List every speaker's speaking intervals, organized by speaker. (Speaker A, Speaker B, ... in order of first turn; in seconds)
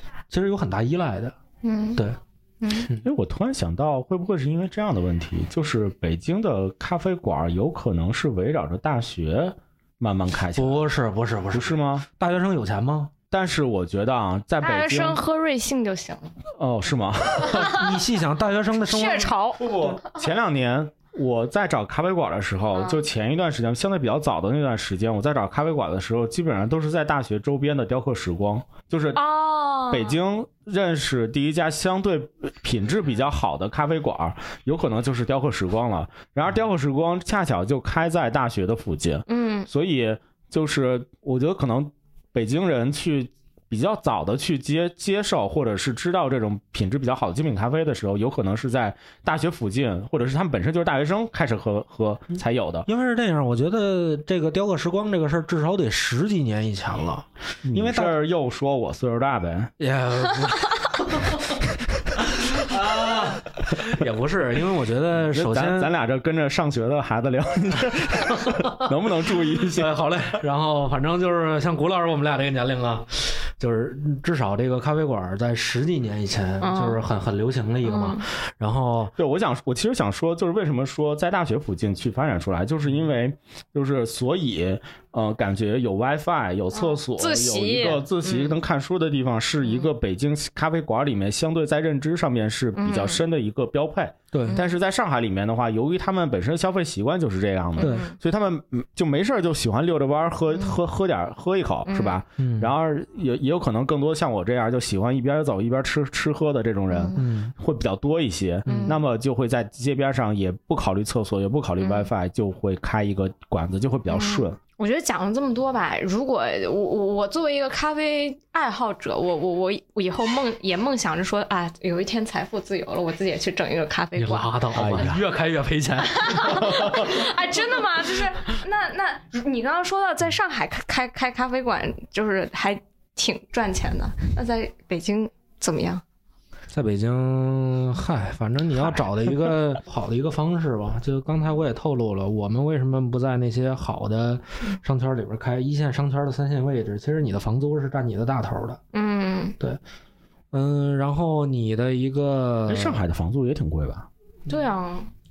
Speaker A: 0.3-1.3, 10.5-13.1, 17.5-20.0, 52.9-58.1, 59.8-61.4, 62.2-65.9, 68.5-68.8, 69.7-79.1, 94.3-94.6, 97.8-98.0, 102.4-102.7, 107.2-107.5, 108.7-108.9, 124.2-128.2, 136.7-148.8, 150.5-153.0
Speaker B: 1.6-2.0, 2.6-2.9, 14.6-16.3, 17.4-17.8, 18.9-19.6, 22.8-23.0, 29.1-30.2, 39.3-39.7, 76.6-77.0, 77.8-78.2, 86.7-88.5, 92.8-93.2, 94.4-94.7, 97.8-98.1, 101.9-102.2, 106.9-107.2, 108.7-109.0, 111.8-112.1, 114.1-125.1, 126.1-136.0, 148.9-149.6, 154.5-155.1
Speaker C: 3.0-10.8, 11.5-12.1, 13.3-15.2, 16.6-17.8, 19.6-29.2, 29.9-52.9, 57.6-59.7, 65.1-69.9, 79.2-114.6, 124.7-125.2, 126.7-127.0, 152.7-154.1